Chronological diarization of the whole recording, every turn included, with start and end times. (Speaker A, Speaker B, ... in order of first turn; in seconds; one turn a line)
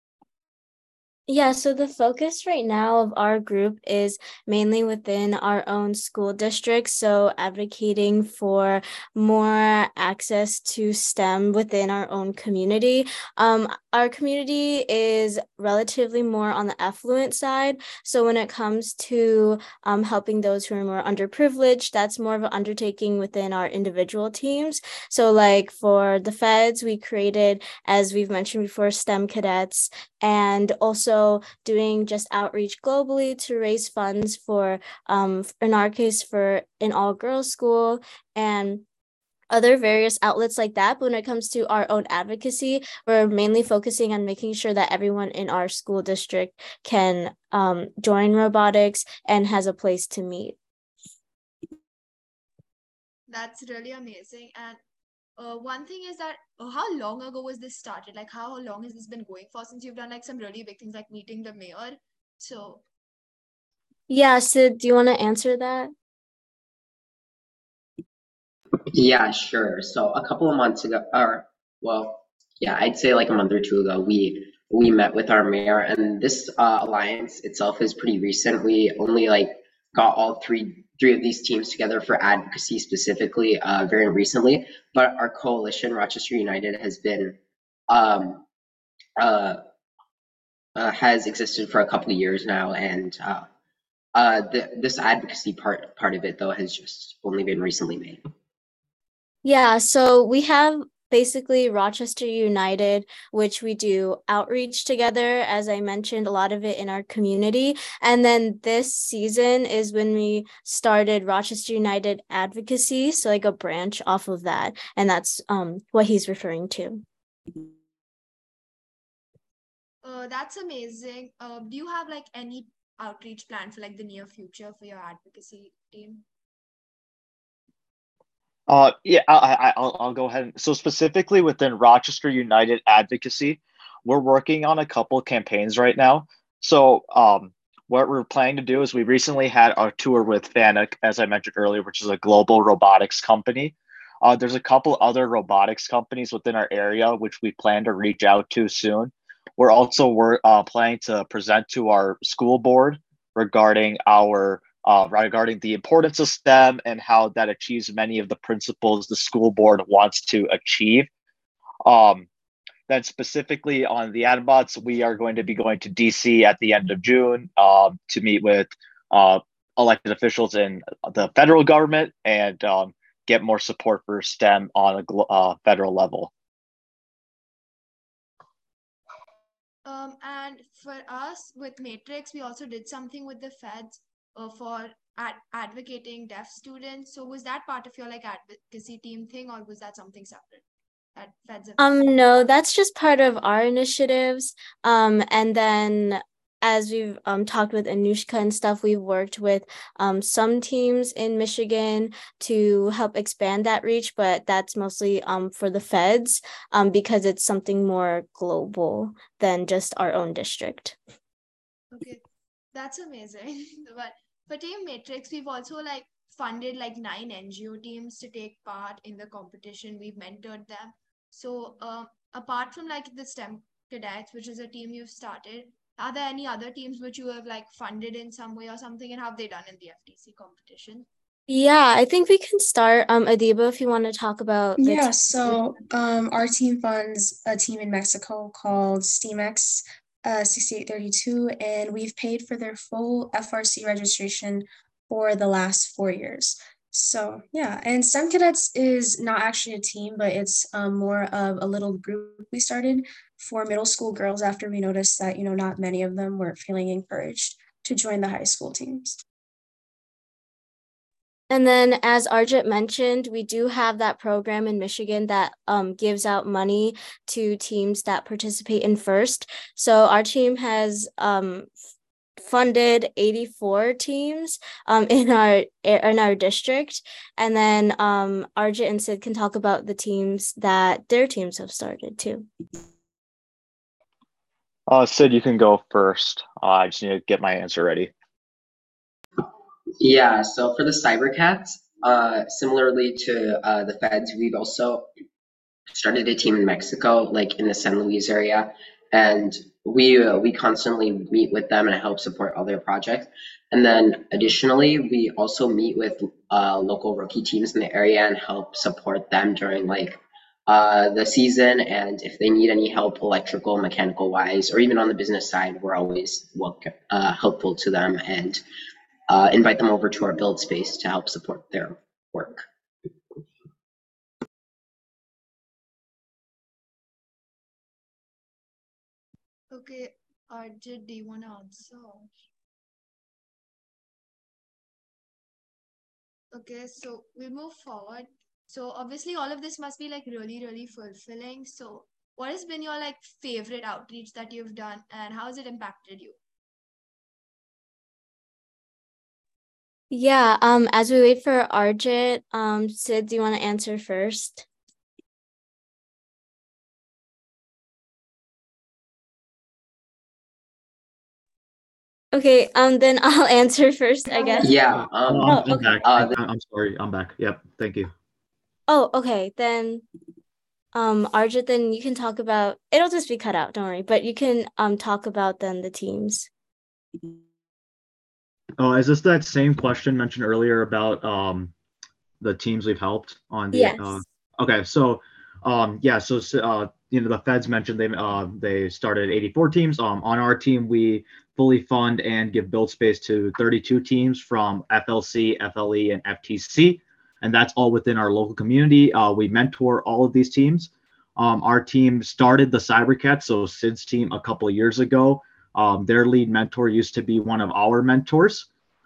Speaker A: 1.3-38.8
Speaker A: 39.5-50.6
Speaker B: 53.3-54.8
Speaker B: 55.4-62.8
Speaker A: 64.1-65.9
Speaker C: 68.9-87.4
Speaker C: 87.9-88.4
Speaker C: 89.2-89.6
Speaker C: 90.7-93.5
Speaker C: 94.1-98.2
Speaker A: 99.4-117.0
Speaker B: 120.0-126.2
Speaker D: 128.7-161.1
Speaker D: 161.8-162.3
Speaker D: 162.9-176.3
Speaker B: 179.8-190.6
Speaker B: 191.2-192.1
Speaker A: 191.8-211.0
Speaker B: 211.9-212.2
Speaker B: 212.7-231.1
Speaker A: 231.5-235.6
Speaker E: 234.8-259.2
Speaker A: 261.5-271.7
Speaker A: 272.4-282.5
Speaker D: 284.9-288.1
Speaker C: 290.0-295.1
Speaker C: 295.9-318.6
Speaker C: 319.3-322.6
Speaker B: 329.7-332.3
Speaker B: 336.5-346.4
Speaker A: 350.1-354.6
Speaker A: 362.3-364.7
Speaker C: 364.6-366.3
Speaker D: 365.3-368.1
Speaker A: 365.4-365.9
Speaker A: 368.9-370.0
Speaker A: 370.9-376.5
Speaker D: 378.8-381.7
Speaker D: 382.4-408.7
Speaker A: 383.7-384.2